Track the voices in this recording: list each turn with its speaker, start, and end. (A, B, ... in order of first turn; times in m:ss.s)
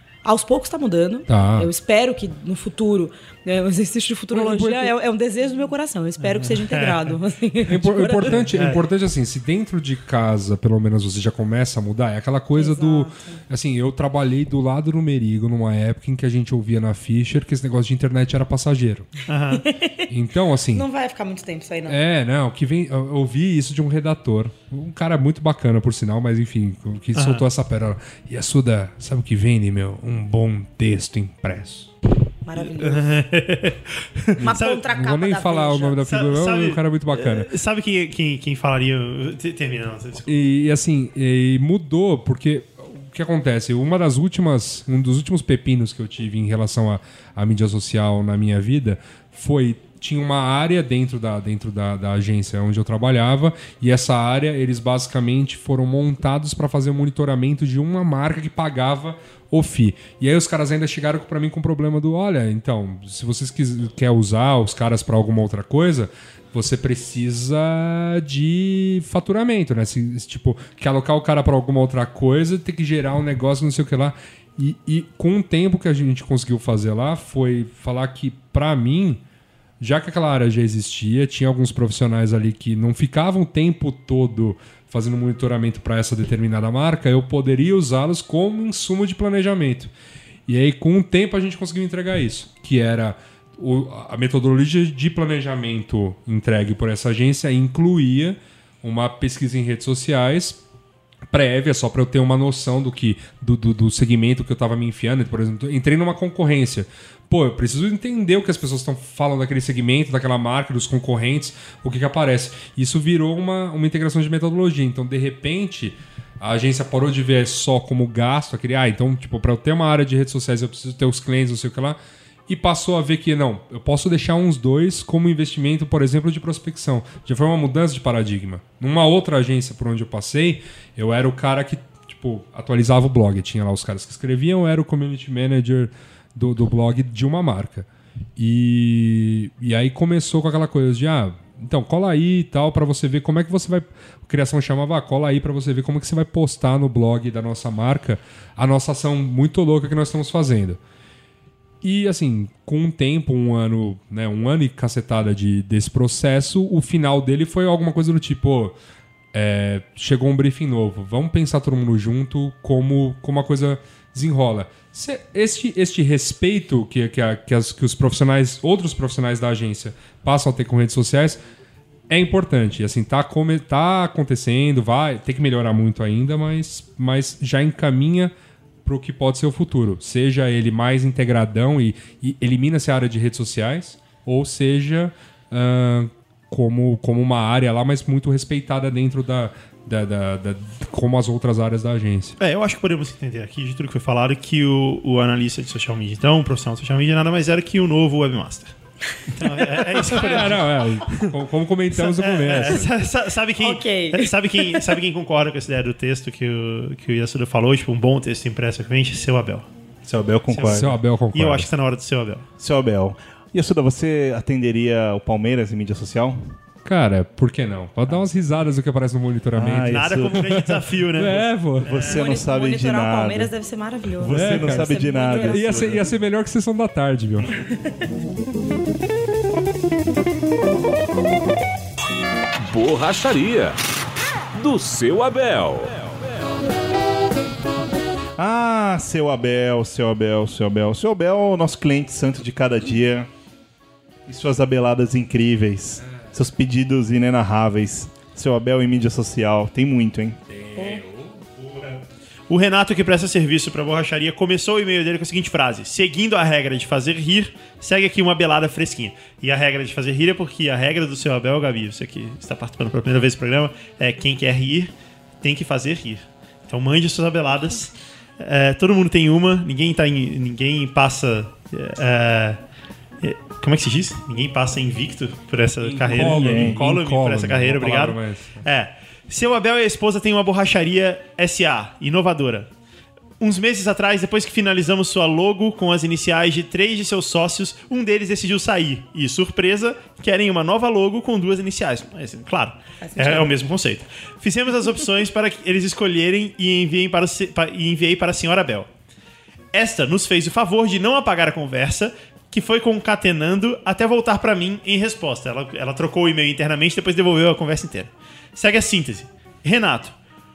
0:00.2-0:08.4 A
0:01.3-0:01.7 B
0:04.3-0:04.9 B
0:06.2-0:07.2 C
0:07.7-0:19.1 B
0:08.3-0:08.8 C
0:12.5-0:13.4 A
0:19.3-0:19.6 C
0:19.5-0:20.1 A
0:20.1-0:20.8 B
0:20.7-0:22.0 A
0:21.9-0:31.9 B
0:27.1-0:27.4 C
0:32.4-0:33.1 A
0:32.8-0:34.8 C
0:34.4-0:37.5 B
0:34.4-0:36.0 A
0:36.0-0:40.3 C
0:40.3-1:19.2 B
1:19.8-1:29.9 B
1:30.5-1:40.6 B
1:41.3-2:30.8 B
2:31.8-2:38.8 B
2:39.3-2:51.4 B
2:52.1-2:58.3 B
2:58.8-3:12.4 B
3:12.4-3:18.7 C
3:19.3-3:21.3 C
3:20.0-3:22.9 B
3:21.9-3:29.7 C
3:22.5-3:22.8 A
3:23.6-3:24.9 A
3:30.0-3:31.0 D
3:30.5-3:32.4 C
3:30.6-3:31.7 B
3:32.6-3:36.5 D
3:36.8-3:42.0 B
3:39.5-3:40.6 D
3:39.8-3:42.2 C
3:41.8-3:43.5 D
3:42.1-3:45.9 A
3:44.2-3:46.1 D
3:44.3-3:47.6 B
3:52.6-3:53.8 E
3:54.5-3:56.3 E
3:58.4-4:03.3 D
4:04.3-4:10.4 D
4:10.7-4:11.5 B
4:12.5-4:32.6 C
4:33.2-4:42.7 C
4:35.8-4:38.6 B
4:36.2-4:36.8 D
4:43.4-4:58.9 C
4:53.0-4:53.5 A
4:59.7-5:10.1 C